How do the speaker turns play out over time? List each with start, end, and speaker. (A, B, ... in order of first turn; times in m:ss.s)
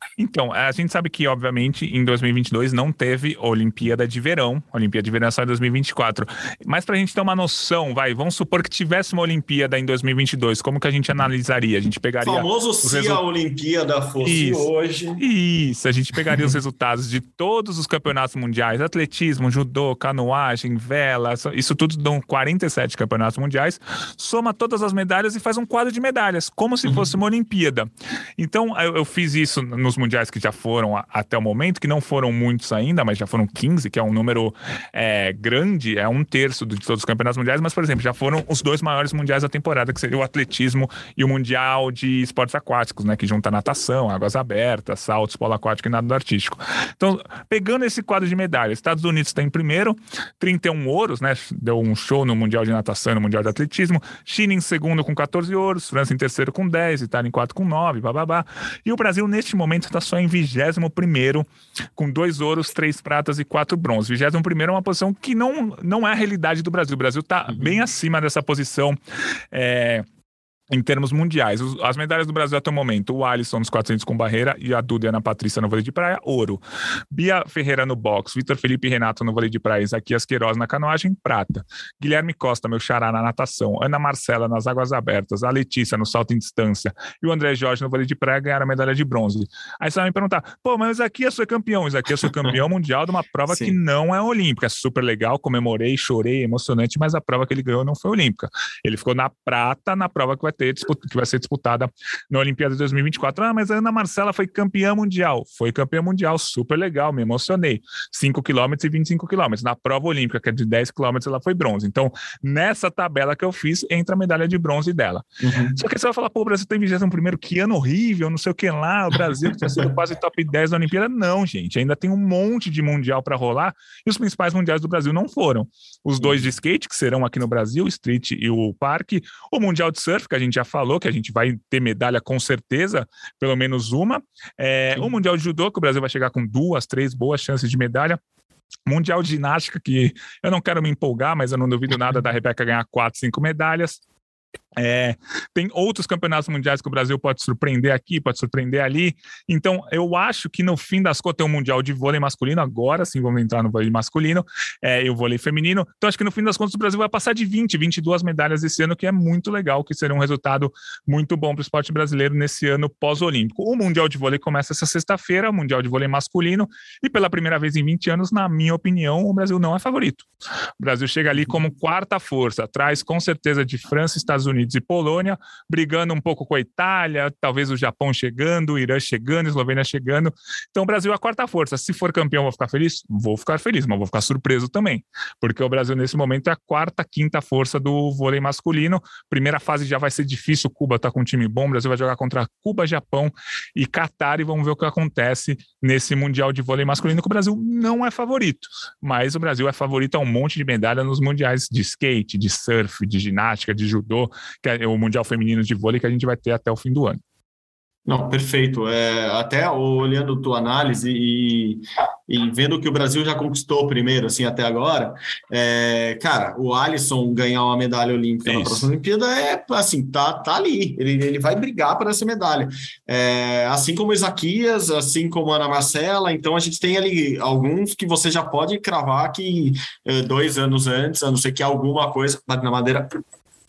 0:00.2-0:13.2 A
0:12.2-0:15.2 B
0:14.2-1:09.0 A
1:09.5-1:10.0 A
1:10.7-1:55.2 A
1:33.5-1:33.8 B
1:55.4-1:55.8 B
1:55.8-2:18.2 A
2:06.2-2:06.4 B
2:18.9-2:24.0 A
2:24.8-2:50.3 A
2:50.8-3:27.2 A
3:28.1-3:53.2 B
3:38.5-3:38.9 A